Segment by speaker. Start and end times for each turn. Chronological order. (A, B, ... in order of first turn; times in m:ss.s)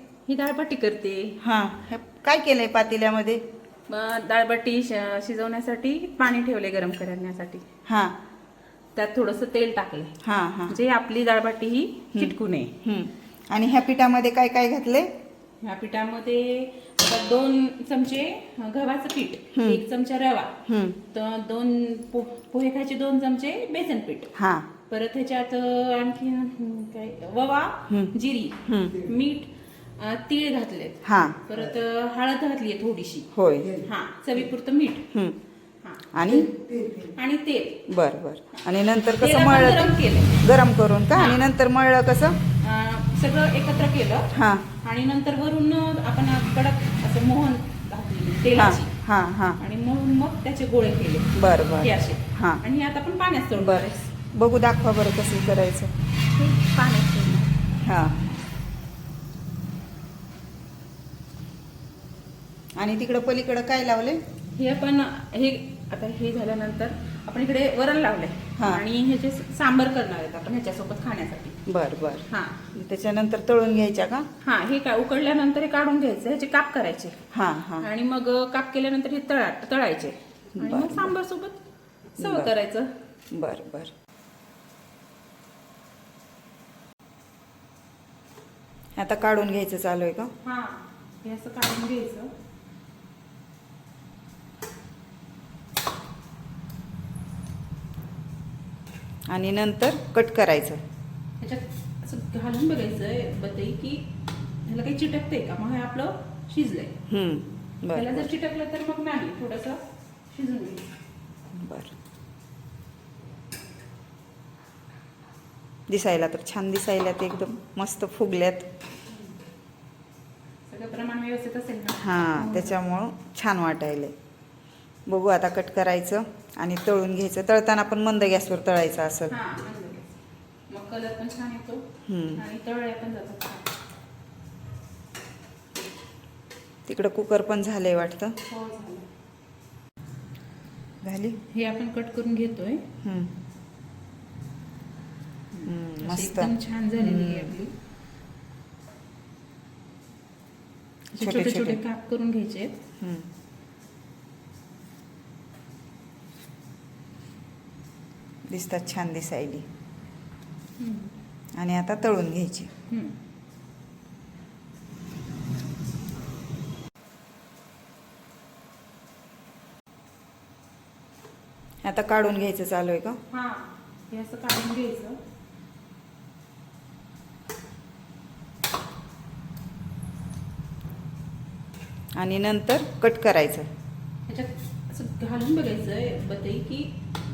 0:00.3-0:01.4 A
0:01.4-0:03.4 B
0:03.9-0:07.6 A
0:07.9-0:08.2 B
0:09.0-0:12.8 A
0:10.2-0:10.8 B
0:12.1-0:15.1 B
0:15.6-0:24.3 A
0:19.5-0:19.8 B
0:20.7-0:21.0 B
0:24.4-0:24.7 B
0:24.9-0:33.3 A
0:27.9-0:28.1 B
0:28.7-0:29.0 B
0:31.0-0:31.4 B
0:33.3-0:33.8 B
0:33.8-0:35.1 A
0:35.1-0:35.4 B
0:35.8-0:37.8 A
0:36.1-0:36.5 B
0:37.9-0:42.4 B
0:39.1-0:40.4 A
0:41.1-0:41.5 A
0:42.6-0:48.9 A
0:44.3-0:44.6 B
0:48.6-0:49.6 B
0:49.6-0:54.1 A
0:51.4-0:52.6 B
0:53.6-0:55.9 B
0:56.3-0:57.6 A
0:57.8-0:58.2 B
1:02.8-1:04.2 B
1:04.6-1:11.6 A
1:08.6-1:08.8 B
1:11.7-1:14.3 B
1:12.3-1:12.7 A
1:14.4-1:17.2 A
1:17.3-1:17.9 B
1:17.8-1:21.6 A
1:20.6-1:21.1 B
1:22.2-1:23.0 A
1:22.2-1:22.5 B
1:23.3-1:23.9 B
1:29.0-1:30.3 B
1:30.4-1:32.3 A
1:39.3-1:40.8 B
1:41.4-1:44.0 A
1:44.6-1:47.0 A
1:47.1-1:48.3 B
1:47.9-1:50.8 A
1:51.5-1:52.0 B
1:55.9-1:58.7 B
2:00.7-2:02.8 A
2:02.0-2:04.1 B
2:05.1-2:09.3 B
2:09.3-2:10.2 A
2:10.7-2:13.7 A
2:12.1-2:12.4 B
2:16.9-2:18.4 B
2:18.5-2:19.1 A
2:21.0-2:21.4 B
2:21.5-2:22.9 A
2:23.0-2:23.3 B
2:25.6-2:27.7 A
2:25.6-2:27.5 B
2:31.2-2:32.8 A
2:31.2-2:31.8 B
2:33.0-2:33.3 B
2:38.5-2:39.6 B
2:40.8-2:41.2 A
2:41.6-2:42.7 B
2:42.9-2:43.2 A
2:51.8-2:53.2 B
2:53.3-2:55.2 A
3:02.2-3:03.7 B
3:04.3-3:06.9 A